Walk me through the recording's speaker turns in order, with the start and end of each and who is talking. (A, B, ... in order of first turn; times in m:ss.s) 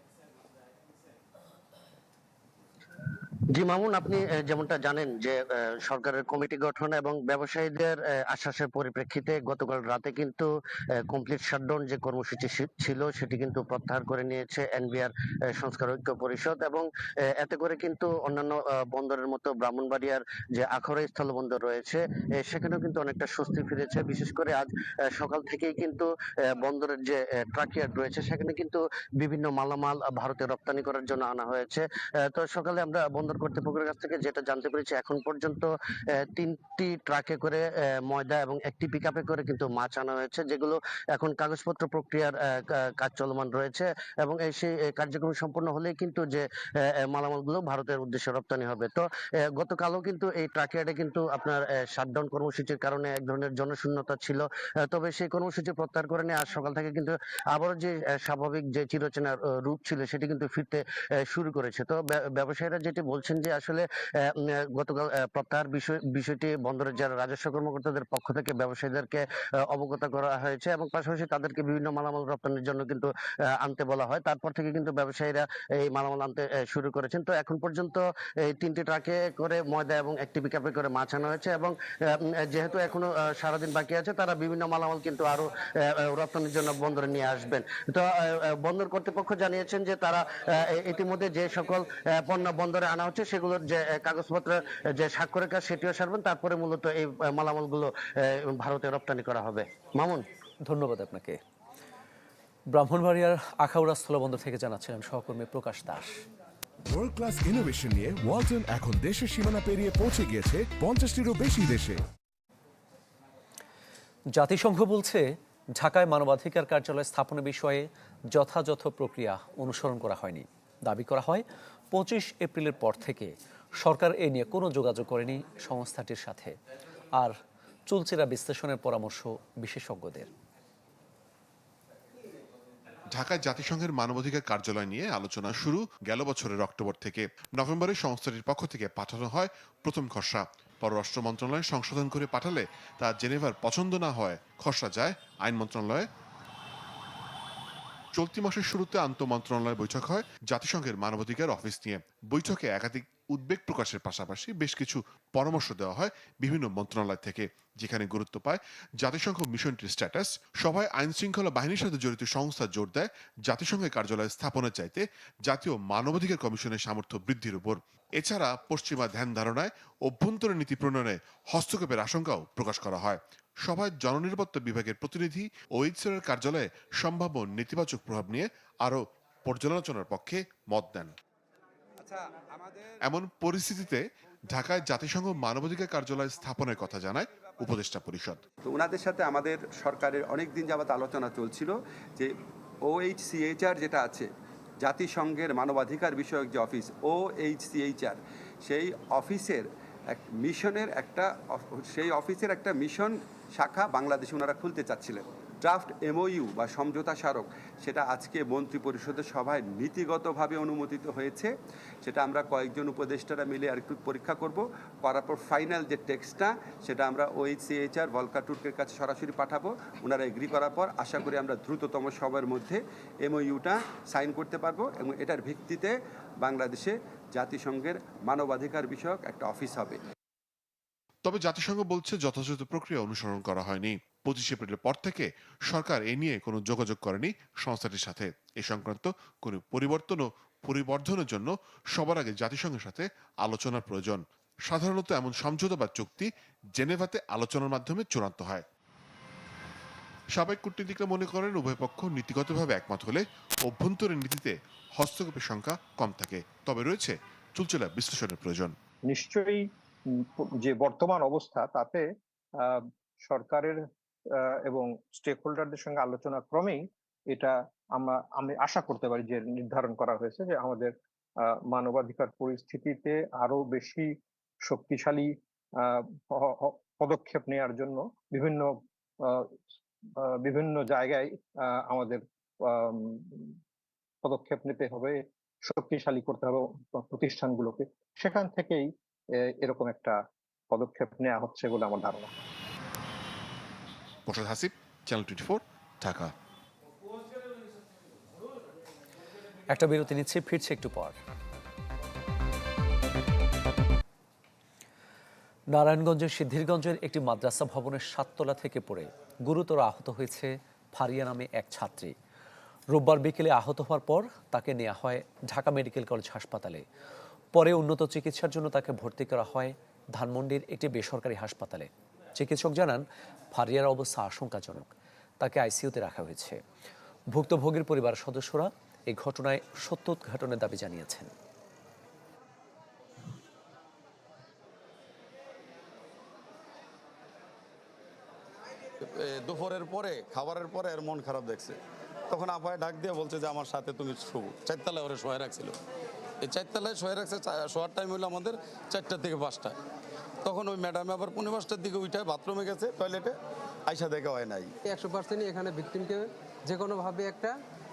0:03.5-1:40.2 A
1:40.7-1:41.4 B
1:42.7-1:46.1 B
1:46.9-1:52.0 C
1:54.3-1:55.2 B
1:55.8-2:06.5 B
2:07.9-2:10.3 B
2:13.1-2:26.1 D
2:28.1-3:01.1 D
3:02.0-3:02.8 E
3:03.0-3:08.4 D
3:08.7-3:12.3 E
3:12.9-3:14.3 E
3:14.8-3:19.6 E
3:20.2-3:31.5 E
3:32.0-3:45.9 E
3:46.4-3:50.0 E
3:51.2-4:08.6 D
4:10.4-4:18.7 D
4:19.1-4:19.6 F
4:20.4-4:22.0 F
4:22.6-4:23.8 F
4:24.4-4:30.9 F
4:31.4-4:34.1 F
4:34.6-4:39.5 F
4:40.2-4:43.5 F
4:44.2-4:50.2 F
4:50.7-4:52.3 F
4:54.3-4:56.3 D
4:59.7-5:01.2 B
5:05.7-5:12.1 B
5:12.9-5:16.8 B
5:17.5-5:23.0 B
5:23.5-5:24.9 B
5:25.4-5:26.6 B
5:27.3-5:31.3 B
5:39.2-5:41.8 G
5:42.3-5:45.8 G
5:46.4-5:49.7 G
5:50.4-5:53.4 G
5:53.9-5:54.7 G
5:54.9-5:57.6 H